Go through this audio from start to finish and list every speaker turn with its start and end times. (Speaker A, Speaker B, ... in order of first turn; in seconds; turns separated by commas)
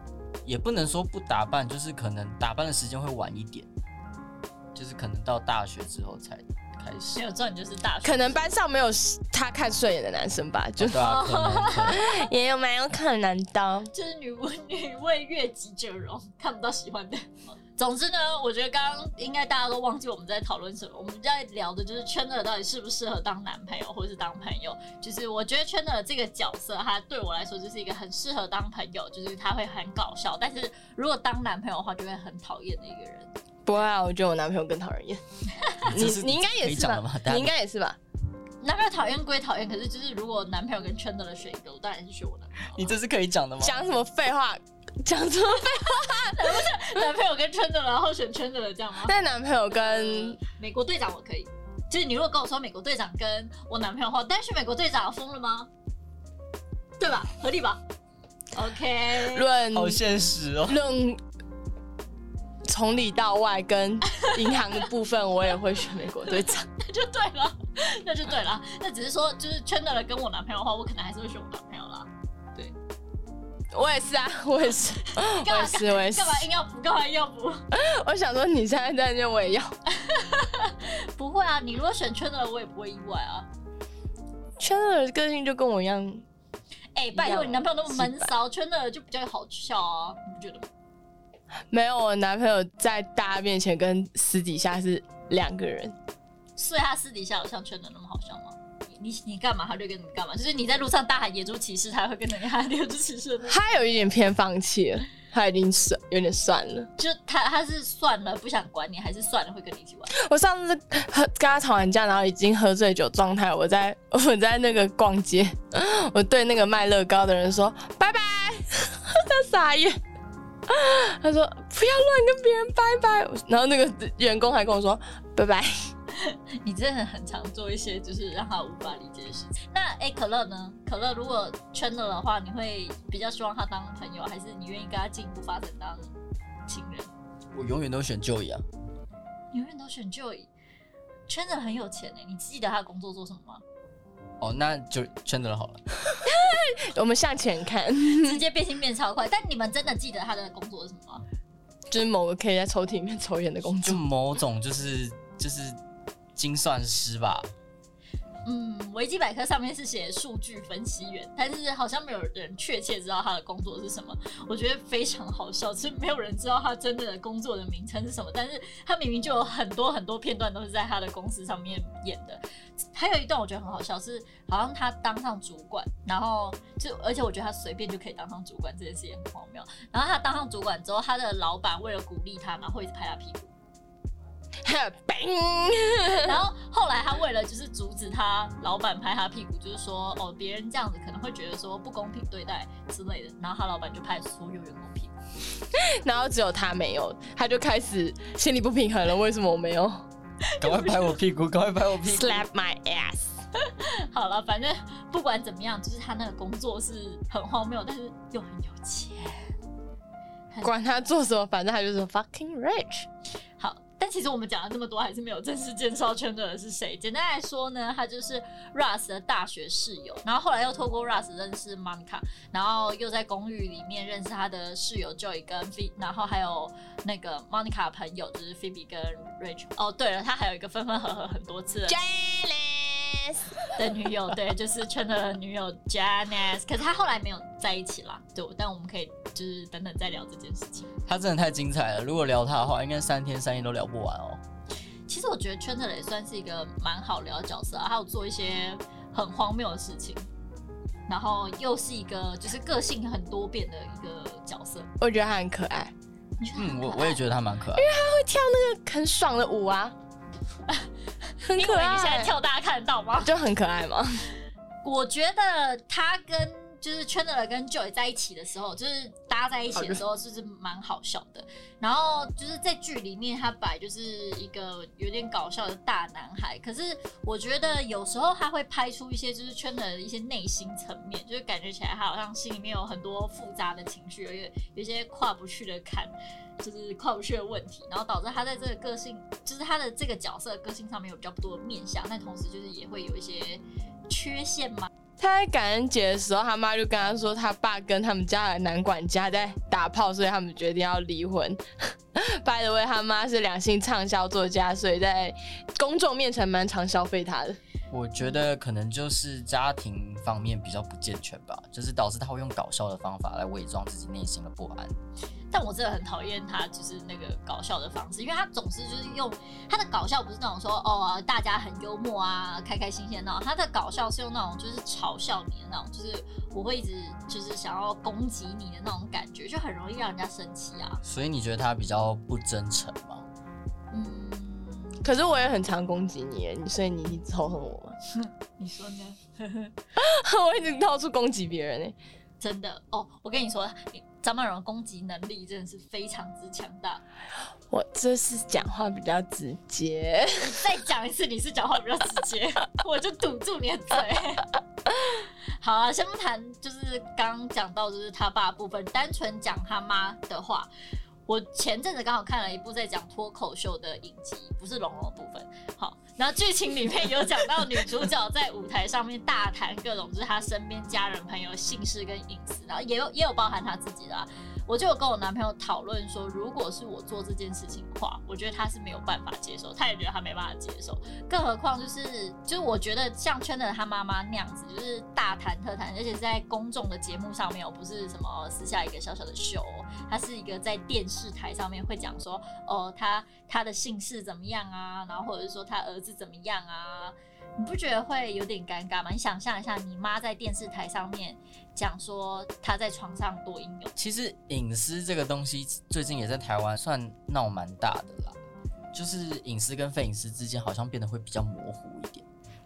Speaker A: 0.5-3.7, Speaker A: 4.8-7.2, Speaker B: 7.2-8.4, Speaker C: 8.0-11.0, Speaker A: 10.8-12.1, Speaker B: 11.0-12.2, Speaker C: 11.8-13.9, Speaker B: 13.9-33.3, Speaker C: 33.7-35.2, Speaker A: 35.8-37.5, Speaker C: 35.9-38.0, Speaker B: 38.6-43.0, Speaker A: 42.8-43.8, Speaker C: 43.6-46.7, Speaker B: 45.6-49.1, Speaker C: 49.0-50.4, Speaker B: 49.7-55.7, Speaker B: 57.0-57.8, Speaker B: 58.5-59.5, Speaker C: 59.3-60.0, Speaker A: 59.7-60.8, Speaker C: 60.7-61.2, Speaker C: 62.7-66.7, Speaker B: 64.1-64.6, Speaker B: 66.8-72.8, Speaker C: 73.7-76.5, Speaker B: 75.0-77.6, Speaker C: 77.7-79.7, Speaker B: 79.9-83.5, Speaker C: 84.6-86.2, Speaker B: 87.0-90.7, Speaker C: 87.1-88.3, Speaker C: 91.7-96.0, Speaker B: 96.6-103.6, Speaker C: 103.5-106.9, Speaker B: 107.0-110.1, Speaker C: 110.1-120.0, Speaker C: 120.7-125.7, Speaker B: 126.1-136.1, Speaker B: 136.7-137.1, Speaker A: 137.5-138.7, Speaker B: 139.5-140.5, Speaker B: 141.3-143.6, Speaker A: 144.4-145.8, Speaker C: 146.2-148.4, Speaker B: 148.1-151.2, Speaker C: 151.9-154.0, Speaker A: 153.8-155.8, Speaker A: 156.3-157.5, Speaker B: 158.5-172.4, Speaker B: 172.9-183.5, Speaker C: 184.7-186.4, Speaker B: 186.2-195.1, Speaker C: 195.8-200.1, Speaker B: 200.5-201.2, Speaker A: 200.6-202.4, Speaker C: 202.1-203.3, Speaker B: 203.6-209.6, Speaker C: 210.6-213.1, Speaker B: 213.6-232.0, Speaker C: 231.9-233.5, Speaker B: 233.7-240.9, Speaker A: 241.1-244.4, Speaker B: 245.1-250.3, Speaker B: 251.1-254.9, Speaker C: 255.0-255.9, Speaker B: 256.4-257.2, Speaker A: 256.6-257.9, Speaker C: 257.8-259.9, Speaker B: 261.4-263.3, Speaker C: 261.5-262.3, Speaker C: 263.2-264.2, Speaker B: 264.8-294.9, Speaker C: 269.7-270.0, Speaker C: 295.2-301.6, Speaker C: 302.1-307.6, Speaker A: 307.9-314.9, Speaker B: 315.5-331.0, Speaker A: 331.0-333.2, Speaker B: 333.9-335.1, Speaker C: 335.0-338.0, Speaker B: 338.1-339.7, Speaker C: 340.0-342.0, Speaker B: 342.4-347.0, Speaker C: 347.7-350.6, Speaker B: 350.4-354.5, Speaker B: 355.2-360.7, Speaker B: 361.3-403.9, Speaker A: 404.0-408.4, Speaker A: 408.9-412.2